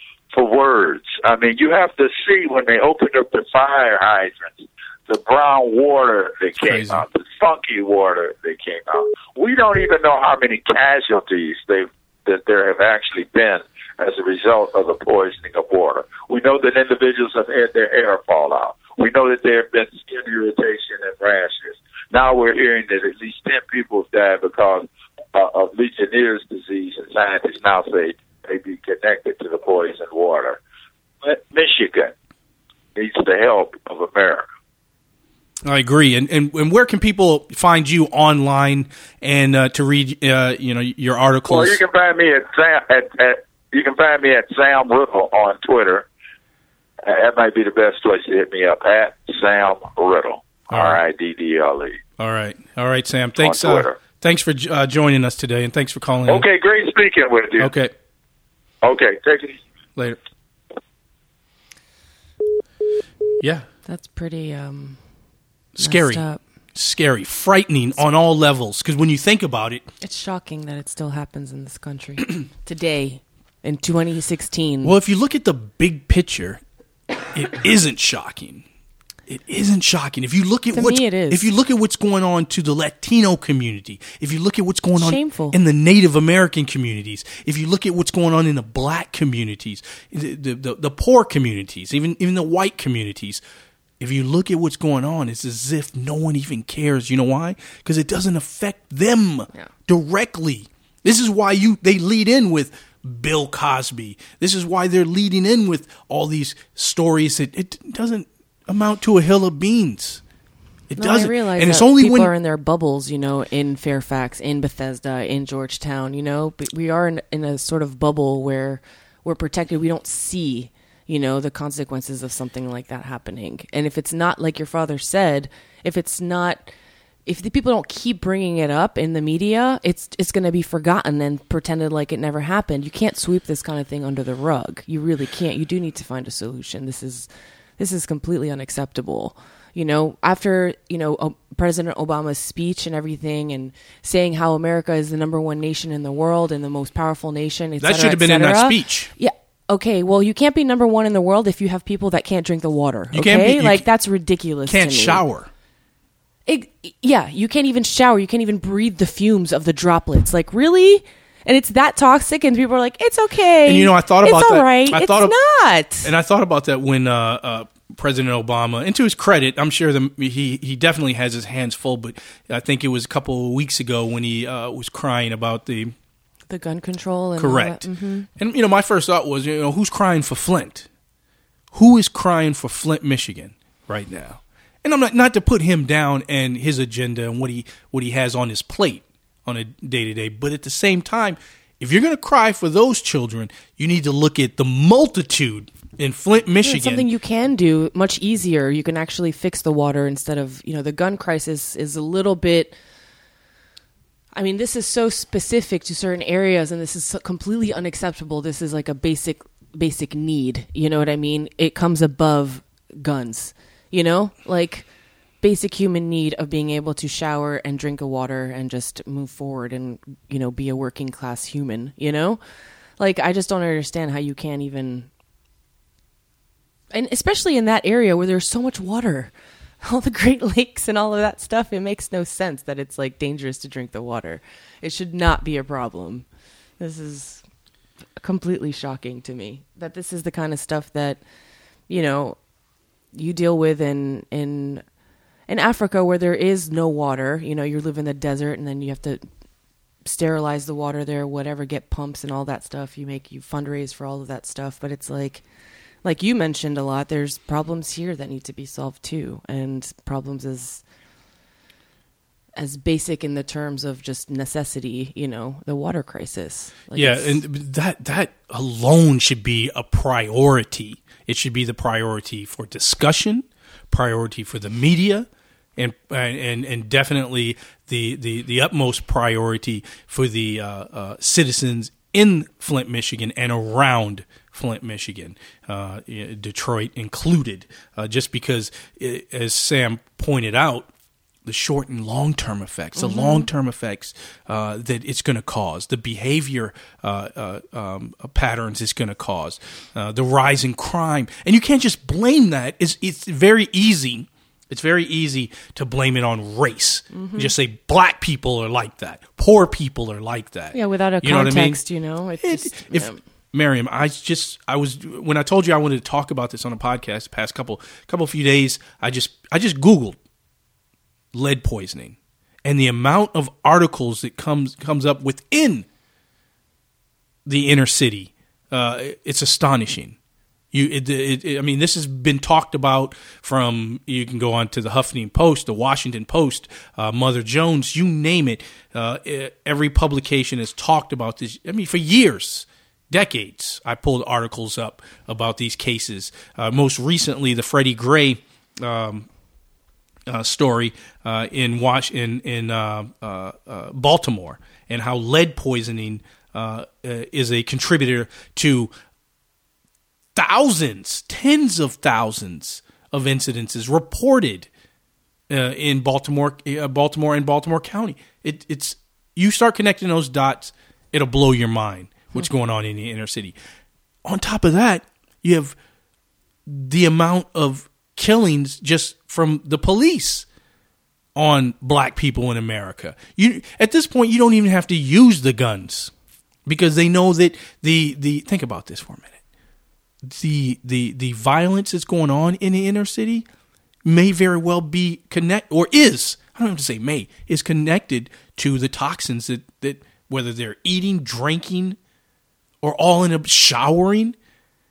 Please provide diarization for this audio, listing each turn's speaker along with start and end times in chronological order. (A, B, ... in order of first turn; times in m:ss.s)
0:00.3-0:30.6 A
0:06.6-0:07.0 B
0:31.2-0:32.1 A
0:33.0-0:34.4 A
0:35.6-0:41.8 B
0:41.5-0:46.1 A
0:47.0-0:52.0 A
0:50.7-0:51.0 B
0:52.2-0:56.4 B
0:53.4-0:54.0 A
0:56.3-0:57.7 A
0:57.6-0:57.9 B
0:58.8-0:59.6 A
1:03.4-1:03.7 B
1:03.8-1:05.0 C
1:05.8-1:09.9 B
1:05.8-1:06.4 C
1:10.0-1:15.0 C
1:14.8-1:16.6 B
1:17.3-1:18.6 B
1:19.3-1:33.4 B
1:20.7-1:21.4 C
1:25.0-1:25.6 C
1:34.0-1:50.2 B
1:50.9-1:52.3 B
1:51.0-2:06.7 C
2:07.2-2:35.2 C
2:27.8-2:29.1 B
2:33.1-2:33.8 B
2:34.7-2:35.5 B
2:36.4-2:46.1 C
2:43.6-2:45.3 B
2:46.0-2:55.9 B
2:56.5-2:58.3 C
2:57.4-3:00.9 B
3:01.7-3:17.1 B
3:16.6-3:22.8 C
3:24.3-3:34.9 C
3:35.4-3:42.4 C
3:43.0-3:45.1 C
3:46.9-3:57.4 C
3:58.2-4:01.2 C
4:01.9-4:02.4 C
4:03.1-4:04.8 C
4:05.5-4:09.2 C
4:10.0-4:15.4 C
4:16.0-4:20.8 C
4:22.5-4:27.4 C
4:26.9-4:50.9 B
4:51.4-5:11.8 B
4:53.0-4:53.5 C
5:07.1-5:07.5 C
5:10.7-5:13.2 C
5:12.4-5:20.2 B
5:21.3-5:25.9 B
5:27.4-5:30.2 B
5:30.7-5:49.3 B
5:50.3-5:58.9 B
6:00.4-6:04.7 B
6:05.5-6:13.5 B
6:14.2-6:15.8 B
6:16.7-6:20.4 B
6:21.3-6:26.1 B
6:26.6-6:29.3 B
6:30.2-6:33.4 B
6:34.0-6:42.0 B
6:42.8-6:44.4 B